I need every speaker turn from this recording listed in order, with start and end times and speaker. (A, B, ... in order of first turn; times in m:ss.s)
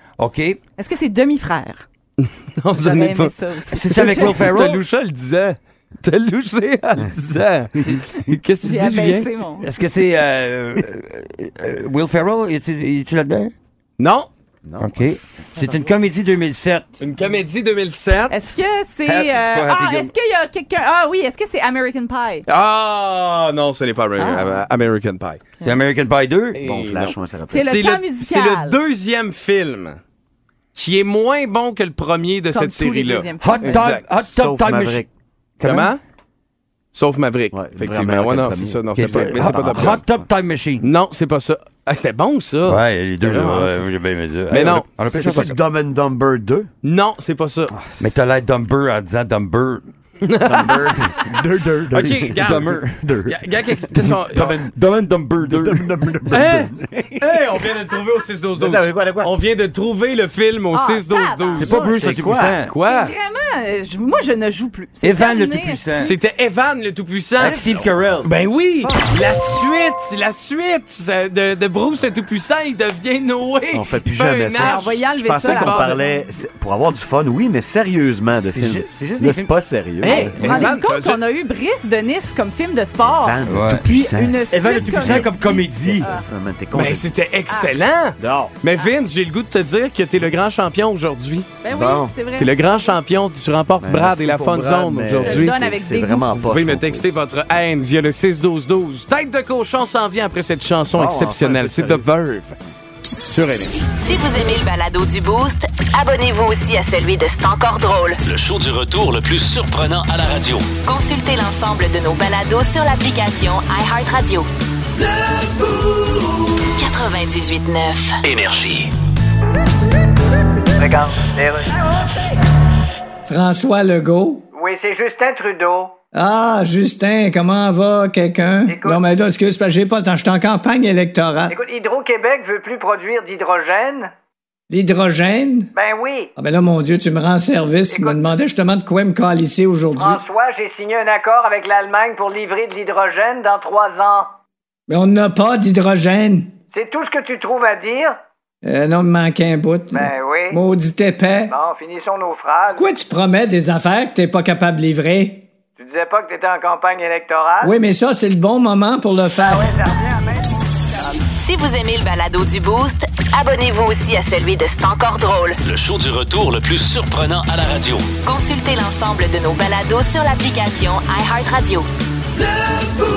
0:00.2-0:00.6 A
0:00.8-0:01.8 B
0:02.2-0:07.7 C
0:02.8-0:04.6 B
0:03.7-0:04.8 A
0:07.8-0:08.2 A
0:08.2-0:09.7 B
0:08.3-0:09.3 C
0:09.6-0:13.5 A
0:14.0-0:14.3 C
0:14.6-0:15.9 D
0:14.8-0:16.9 A
0:17.0-0:18.3 C
0:18.3-0:22.4 B
0:19.0-0:20.1 A
0:22.5-0:25.4 C
0:24.2-0:24.7 B
0:25.6-0:26.6 A
0:26.6-0:30.0 C
0:26.6-0:27.8 D
0:27.5-0:28.8 B
0:30.8-0:34.0 C
0:32.5-0:34.0 B
0:33.4-0:35.0 A
0:34.1-0:35.1 D
0:35.6-0:35.9 A
0:35.6-0:36.0 C
0:36.9-0:40.0 C
0:37.5-0:40.2 D
0:38.9-0:40.9 A
0:40.8-0:42.8 C
0:42.6-0:45.6 A
0:43.2-0:43.8 D
0:44.5-0:45.0 C
0:45.0-0:46.7 D
0:46.8-0:47.7 C
0:47.7-0:48.2 D
0:48.0-0:49.9 A
0:50.2-0:52.8 C
0:50.4-0:54.8 D
0:51.9-0:53.1 A
0:53.3-0:54.6 C
0:54.0-0:56.4 A
0:55.4-0:57.8 D
0:56.3-1:01.7 C
0:58.5-0:59.4 D
1:00.7-1:02.0 B
1:01.5-1:02.7 A
1:01.6-1:02.6 D
1:02.7-1:03.1 C
1:02.8-1:06.2 B
1:05.0-1:06.1 A
1:06.0-1:07.6 C
1:07.4-1:08.3 D
1:07.4-1:08.3 A
1:08.2-1:14.9 C
1:08.8-1:09.5 D
1:13.7-1:20.6 D
1:14.6-1:16.3 B
1:15.5-1:15.9 C
1:18.4-1:20.9 A
1:20.0-1:26.3 B
1:20.5-1:21.2 C
1:23.0-1:27.1 D
1:23.5-1:23.9 A
1:24.5-1:26.1 A
1:26.7-1:31.6 C
1:27.5-1:27.8 B
1:28.2-1:28.6 D
1:31.6-1:32.9 B
1:31.7-1:32.2 D
1:32.4-1:35.6 C
1:33.8-1:37.2 D
1:35.2-1:36.4 B
1:36.4-1:42.6 C
1:40.9-1:42.1 D
1:43.2-1:43.8 C
1:43.9-1:48.2 E
1:48.3-1:50.7 F
1:50.8-1:54.5 E
1:56.8-1:58.2 E
1:58.2-1:58.9 F
2:00.8-2:01.8 G
2:03.3-2:04.4 H
2:04.5-2:05.9 G
2:06.1-2:11.6 H
2:08.7-2:09.0 G
2:11.5-2:14.1 G
2:14.7-2:15.7 H
2:15.8-2:16.3 G
2:16.4-2:20.2 H
2:17.9-2:18.3 G
2:20.0-2:24.3 G
2:24.9-2:26.5 H
2:26.7-2:28.2 G
2:28.6-2:31.5 H
2:29.9-2:30.6 G
2:31.5-2:32.9 G
2:32.7-2:35.5 H
2:35.8-2:37.7 G
2:37.6-2:39.7 H
2:39.4-2:41.1 G
2:41.3-2:45.6 E
2:45.6-2:48.1 F
2:48.2-2:51.9 E